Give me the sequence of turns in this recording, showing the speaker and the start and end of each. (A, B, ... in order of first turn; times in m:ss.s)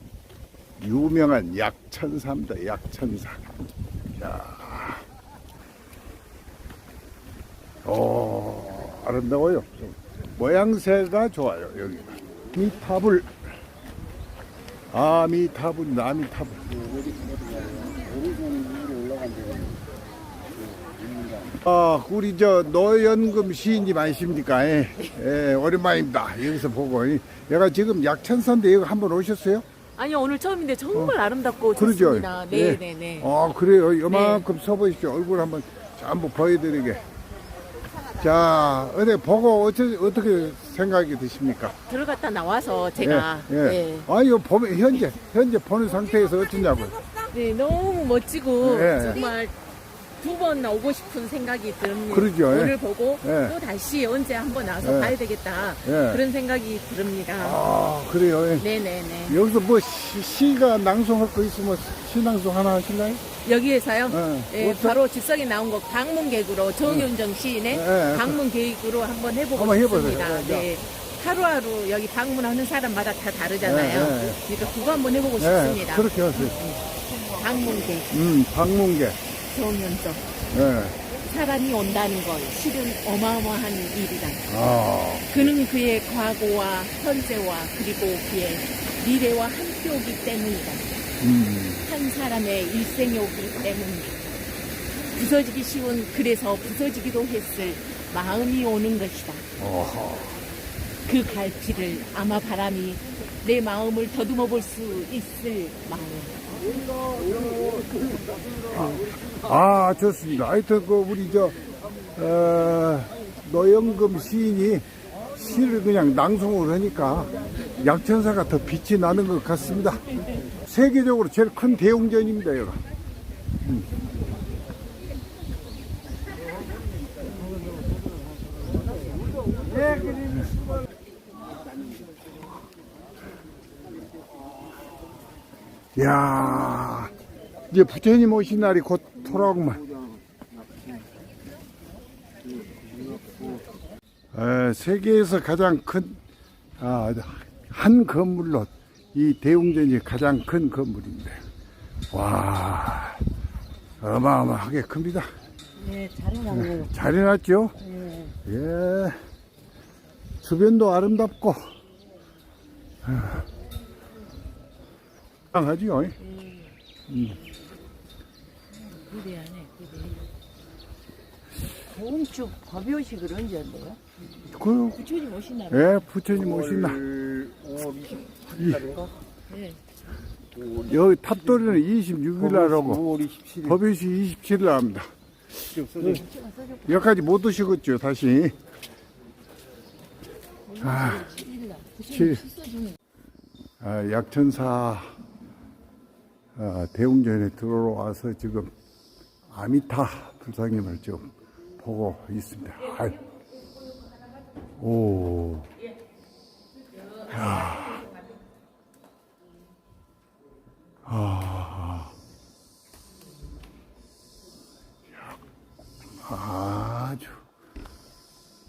0:00.8-0:05.0 A
0:07.8-0:13.3 A
0:14.9-0:16.7 A
0:18.1-0:19.6 B
0:21.0-0:21.4 B
0:21.5-0:29.6 A
0:30.0-0:33.3 C
0:31.8-0:37.0 A
0:34.1-0:34.4 C
0:38.1-0:41.7 A
0:41.9-0:44.1 C
0:43.0-0:47.0 A
0:47.3-0:49.5 C
0:48.6-0:49.2 A
0:50.2-0:57.6 C
0:52.1-0:53.6 A
0:54.8-0:55.2 A
0:55.8-0:56.2 A
0:57.4-0:58.6 A
0:58.6-0:59.4 C
0:59.3-1:03.2 A
1:03.4-1:18.1 C
1:04.1-1:05.0 A
1:06.8-1:07.1 A
1:07.7-1:08.4 A
1:09.6-1:10.7 A
1:13.6-1:14.4 A
1:15.4-1:16.6 A
1:18.1-1:19.2 A
1:19.4-1:20.3 C
1:20.5-1:21.0 A
1:21.1-1:24.5 C
1:24.5-1:25.5 A
1:25.3-1:30.9 C
1:31.2-1:31.8 A
1:31.8-1:34.3 C
1:35.1-1:39.4 C
1:39.6-1:40.4 A
1:41.0-1:46.4 C
1:49.3-1:51.6 A
1:52.2-2:00.0 A
2:00.6-2:02.8 A
2:16.0-2:17.1 A
2:17.7-2:19.8 A
2:24.3-2:26.2 A
2:26.8-2:31.4 A
2:32.1-2:33.2 A
2:34.0-2:35.3 A
2:35.8-2:36.5 C
2:36.5-2:37.7 A
2:38.4-2:39.2 A
2:40.4-2:41.6 A
2:45.5-2:46.2 A
2:47.1-2:47.4 A
2:48.9-2:50.2 C
2:52.0-2:54.0 B
2:52.8-2:53.2 C
2:54.5-2:55.0 A
2:54.9-2:56.0 C
2:55.7-2:57.1 A
2:56.5-2:59.1 B
2:58.6-2:58.9 A
2:59.5-2:59.8 C
3:00.7-3:06.2 A
3:02.5-3:03.7 B
3:05.7-3:06.4 B
3:06.8-3:08.6 A
3:10.7-3:12.8 C
3:10.8-3:11.4 A
3:12.0-3:12.5 A
3:13.8-3:15.2 A
3:16.6-3:18.7 A
3:19.5-3:23.2 A
3:24.8-3:25.7 A
3:27.2-3:28.1 A
3:31.0-3:32.1 A
3:36.2-3:37.4 A